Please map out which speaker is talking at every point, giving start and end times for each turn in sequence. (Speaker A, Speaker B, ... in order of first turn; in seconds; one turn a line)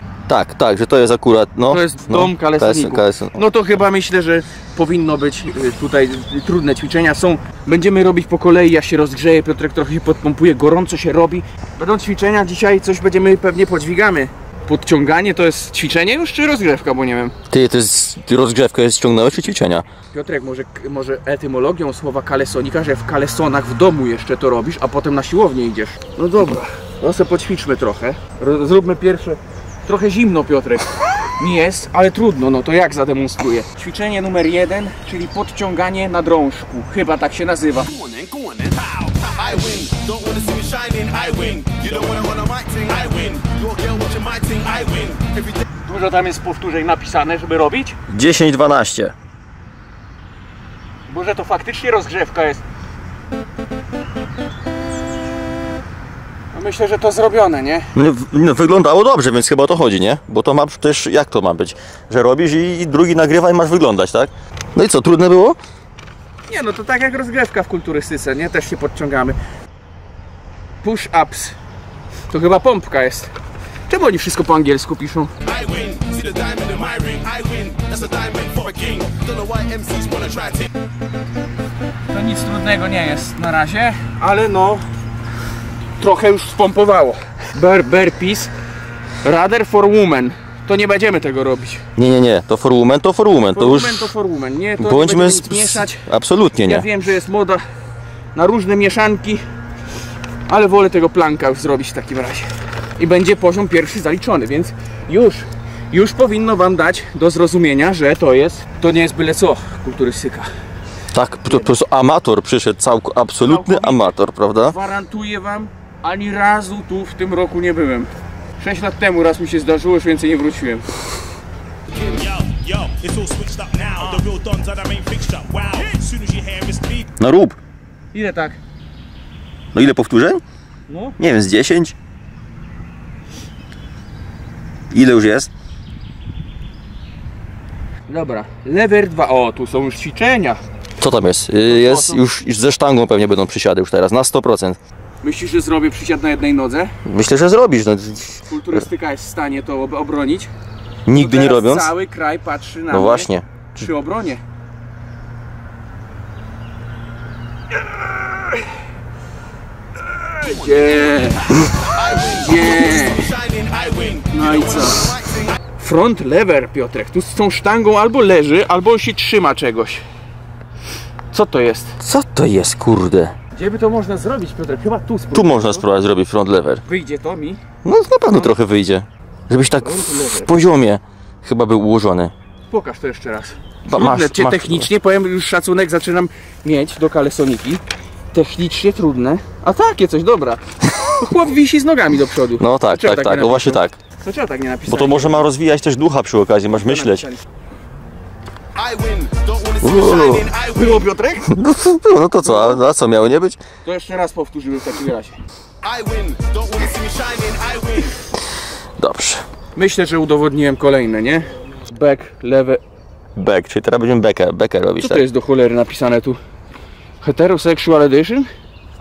Speaker A: 0.3-3.4
Speaker B: 1.7-17.3
Speaker A: 17.5-19.8
Speaker B: 20.1-38.1
Speaker C: 38.1-45.3
Speaker B: 45.8-48.0
Speaker A: 48.1-49.1
Speaker B: 51.1-52.6
Speaker B: 56.5-57.9
Speaker A: 57.9-65.6
Speaker B: 66.5-69.4
Speaker B: 70.8-71.5
Speaker B: 72.3-73.3
Speaker B: 73.9-75.3
Speaker C: 75.4-80.7
Speaker B: 82.1-84.8
Speaker B: 86.0-88.5
Speaker B: 89.2-91.8
Speaker A: 92.0-94.1
Speaker B: 93.5-96.1
Speaker A: 94.8-96.8
Speaker B: 96.6-97.6
Speaker B: 98.3-99.4
Speaker B: 100.5-110.5
Speaker A: 111.1-114.8
Speaker B: 113.4-120.8
Speaker C: 122.1-127.1
Speaker A: 127.2-127.6
Speaker B: 128.1-128.6
Speaker A: 129.7-130.4
Speaker B: 130.9-131.2
Speaker A: 131.2-131.9
Speaker A: 134.9-135.5
Speaker B: 138.1-140.6
Speaker A: 141.0-144.8
Speaker B: 141.6-142.2
Speaker B: 145.2-146.9
Speaker A: 147.0-148.4
Speaker B: 148.5-150.5
Speaker A: 151.1-151.9
Speaker B: 151.1-154.4
Speaker A: 152.9-153.4
Speaker B: 158.0-158.6
Speaker B: 160.2-163.4
Speaker C: 161.9-162.6
Speaker C: 163.1-164.4
Speaker B: 164.3-165.2
Speaker B: 165.8-170.0
Speaker B: 171.3-171.9
Speaker A: 172.0-173.3
Speaker B: 173.5-175.8
Speaker A: 175.3-176.8
Speaker B: 176.8-177.6
Speaker A: 177.8-182.3
Speaker B: 179.8-180.5
Speaker B: 182.7-195.4
Speaker A: 183.8-184.9
Speaker A: 192.6-194.0
Speaker A: 194.9-197.3
Speaker B: 196.7-197.4
Speaker C: 198.8-199.9
Speaker A: 199.8-200.5
Speaker B: 200.2-201.5
Speaker A: 201.5-203.6
Speaker B: 202.4-202.8
Speaker B: 203.8-205.4
Speaker C: 205.8-208.1
Speaker A: 209.0-209.4
Speaker B: 209.8-212.8
Speaker A: 213.3-215.2
Speaker B: 215.0-216.4
Speaker B: 217.2-218.5